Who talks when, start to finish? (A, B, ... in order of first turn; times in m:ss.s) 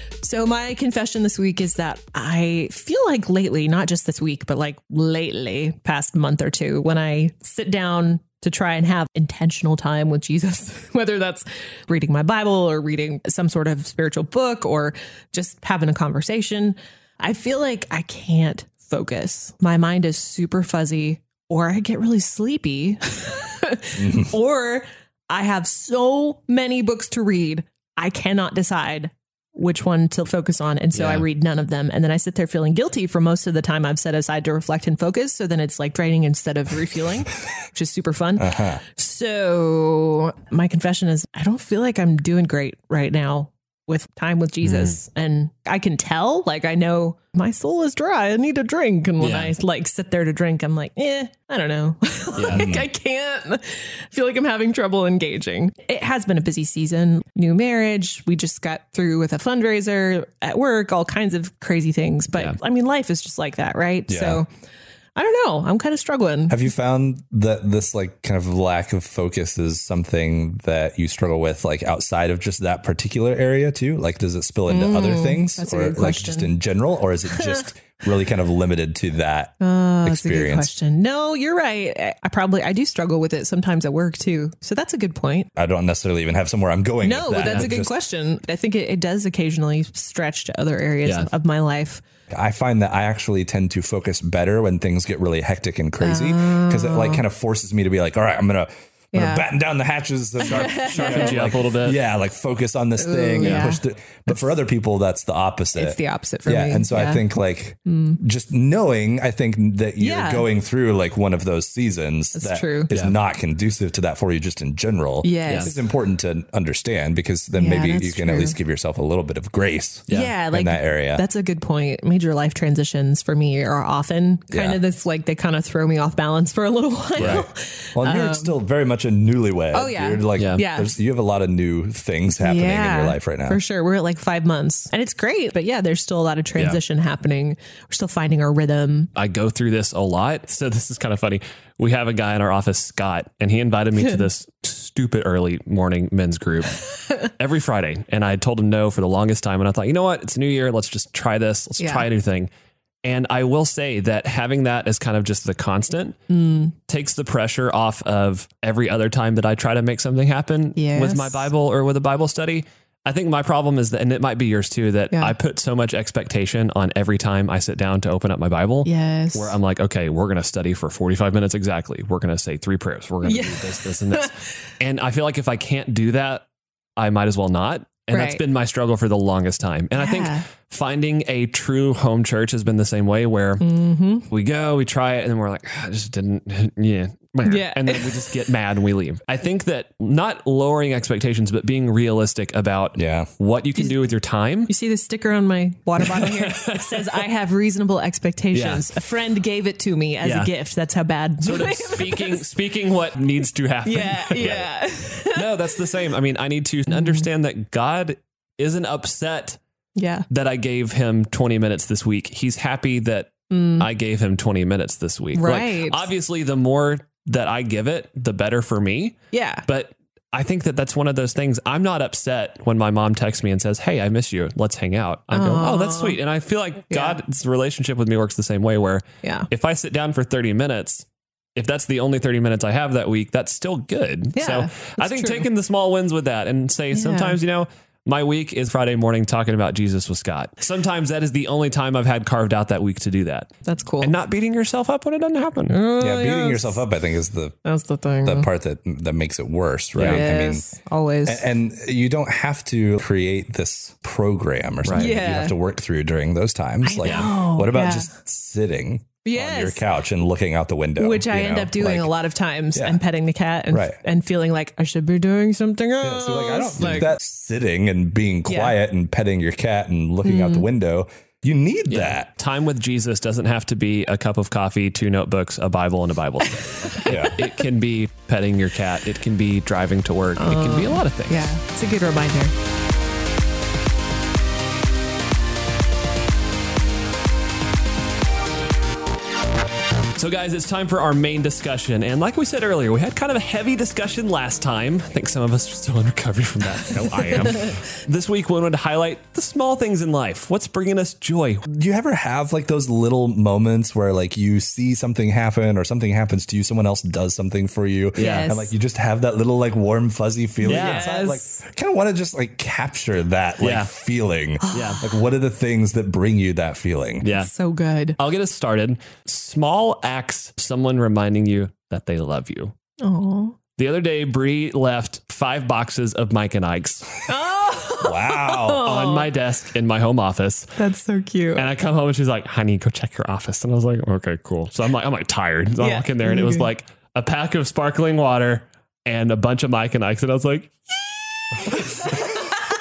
0:00.2-1:04.5 A
0:24.0-0:24.3 B
0:31.0-0:31.2 C
0:38.4-0:38.8 B
0:44.6-0:45.0 C
0:49.2-0:49.5 C
0:52.4-0:52.7 C
0:52.5-0:52.9 B
1:04.1-1:04.4 B
1:05.2-1:06.6 A
1:06.5-1:20.7 B
1:14.7-1:16.5 A
1:19.6-1:25.5 A
1:25.6-1:28.0 B
1:27.0-1:32.0 A
1:27.5-1:27.7 C
1:32.3-2:01.2 B
1:36.0-1:37.2 A
1:39.1-1:39.5 A
1:40.4-1:41.4 A
1:40.4-1:42.0 C
1:43.0-1:44.4 A
1:43.4-1:43.7 C
1:45.8-1:47.2 A
1:47.9-1:48.2 A
1:50.0-1:50.5 A
1:52.4-1:52.9 A
1:55.2-1:55.8 A
1:55.5-1:55.7 C
1:57.6-1:58.6 A
2:00.1-2:08.6 A
2:04.5-2:04.8 B
2:07.2-2:07.5 C
2:07.2-2:13.6 B
2:09.7-2:10.9 A
2:10.4-2:10.6 C
2:12.4-2:19.1 A
2:19.2-2:32.5 C
2:31.8-2:32.1 A
2:33.0-2:36.2 C
2:36.3-2:36.7 A
2:36.9-2:56.4 C
2:40.8-2:41.5 A
2:48.8-2:49.6 A
2:53.2-2:54.3 A
2:57.0-3:03.6 C
2:58.1-2:58.4 A
3:00.0-3:00.4 A
3:03.6-3:04.3 A
3:04.3-3:14.7 C
3:07.4-3:08.3 A
3:13.0-3:13.3 B
3:14.7-3:22.5 A
3:16.0-3:17.2 C
3:18.5-3:18.9 C
3:20.2-3:20.5 C
3:21.4-3:29.6 C
3:23.9-3:25.8 A
3:26.9-3:27.3 A
3:30.0-3:30.3 A
3:30.3-4:05.8 C
3:33.5-3:33.9 A
3:35.4-3:36.1 A
3:39.3-3:39.7 A
3:45.3-3:46.2 A
3:46.9-3:47.2 A
3:49.2-3:49.5 A
3:54.4-3:55.5 A
3:56.9-3:57.4 A
4:03.6-4:04.1 A
4:05.7-4:06.8 A
4:06.0-4:07.6 B
4:07.6-4:08.5 A
4:08.2-4:10.6 B
4:10.0-4:10.2 C
4:10.0-4:11.5 A
4:11.2-4:22.1 B
4:14.8-4:15.1 C
4:14.9-4:15.6 A
4:16.8-4:18.1 A
4:17.0-4:17.3 C
4:19.2-4:19.8 A
4:21.0-4:27.2 A
4:22.8-4:23.0 B
4:23.7-4:24.0 B
4:26.0-4:32.3 B
4:28.5-4:28.8 A
4:30.2-4:30.7 A
4:31.9-4:41.5 C
4:37.1-4:37.4 B
4:40.4-4:42.5 A
4:50.2-5:01.6 C
5:01.7-5:17.2 B
5:08.2-5:08.7 A
5:08.2-5:08.5 C
5:10.6-5:11.6 A
5:10.6-5:11.1 C
5:13.6-5:13.9 C
5:14.6-5:15.0 A
5:14.7-5:15.0 C
5:17.2-5:17.5 C
5:17.2-5:18.2 A
5:18.2-5:22.7 C
5:23.0-5:23.6 A
5:23.8-5:27.1 C
5:27.3-5:29.3 A
5:28.0-5:28.9 B
5:28.8-5:30.7 C
5:30.8-5:31.7 A
5:31.6-5:40.8 C
5:35.8-5:36.7 A
5:41.6-5:42.1 C
5:41.8-5:42.6 A